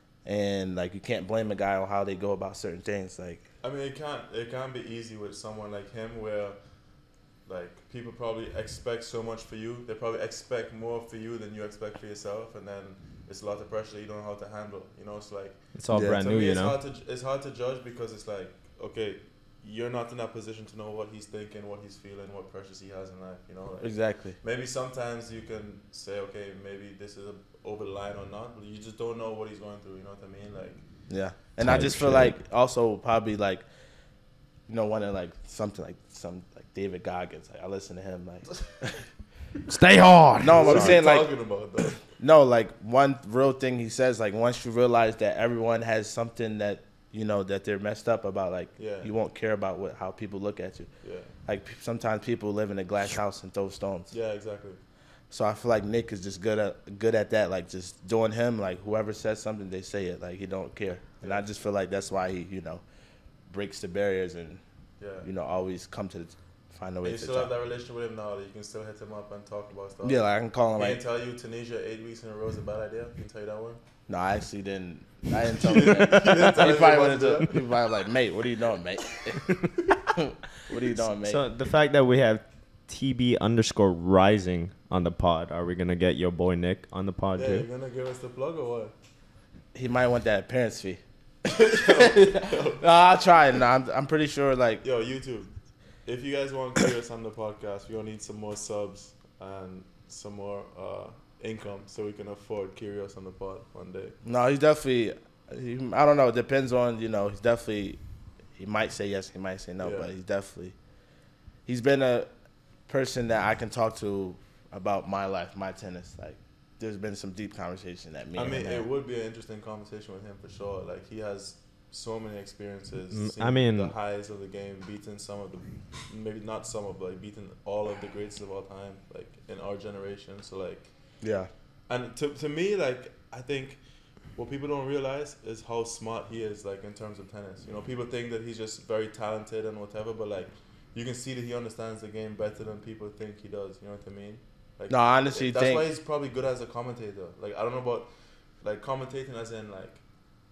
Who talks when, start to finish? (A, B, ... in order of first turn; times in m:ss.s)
0:00.2-0:03.4 A
0:03.6-0:31.1 B
0:15.7-0:16.8 C
0:15.9-0:16.2 A
0:23.8-0:24.4 A
0:31.1-0:33.6 A
0:31.6-0:32.4 C
0:34.7-0:39.0 A
0:39.7-0:41.0 C
0:40.4-0:50.9 A
0:40.5-0:42.0 B
0:48.8-0:49.1 B
0:51.0-0:51.3 B
0:51.4-0:54.1 A
0:54.1-0:54.8 B
0:55.3-1:02.8 A
1:03.5-1:04.6 A
1:05.0-1:05.3 B
1:05.2-1:07.5 A
1:07.0-1:13.8 B
1:10.0-1:11.0 A
1:14.1-1:21.4 A
1:15.5-1:17.6 B
1:16.0-1:16.5 C
1:21.0-1:27.7 C
1:27.4-1:28.9 B
1:29.7-1:31.0 A
1:31.4-1:32.8 B
1:31.7-1:34.8 A
1:34.8-1:44.2 B
1:44.2-1:48.0 A
1:48.6-1:50.8 A
1:49.8-1:50.1 B
1:51.6-1:52.3 A
1:52.9-1:58.8 A
1:58.4-2:11.2 B
2:03.1-2:03.9 C
2:11.2-2:11.5 A
2:11.9-2:30.1 B
2:24.9-2:25.9 A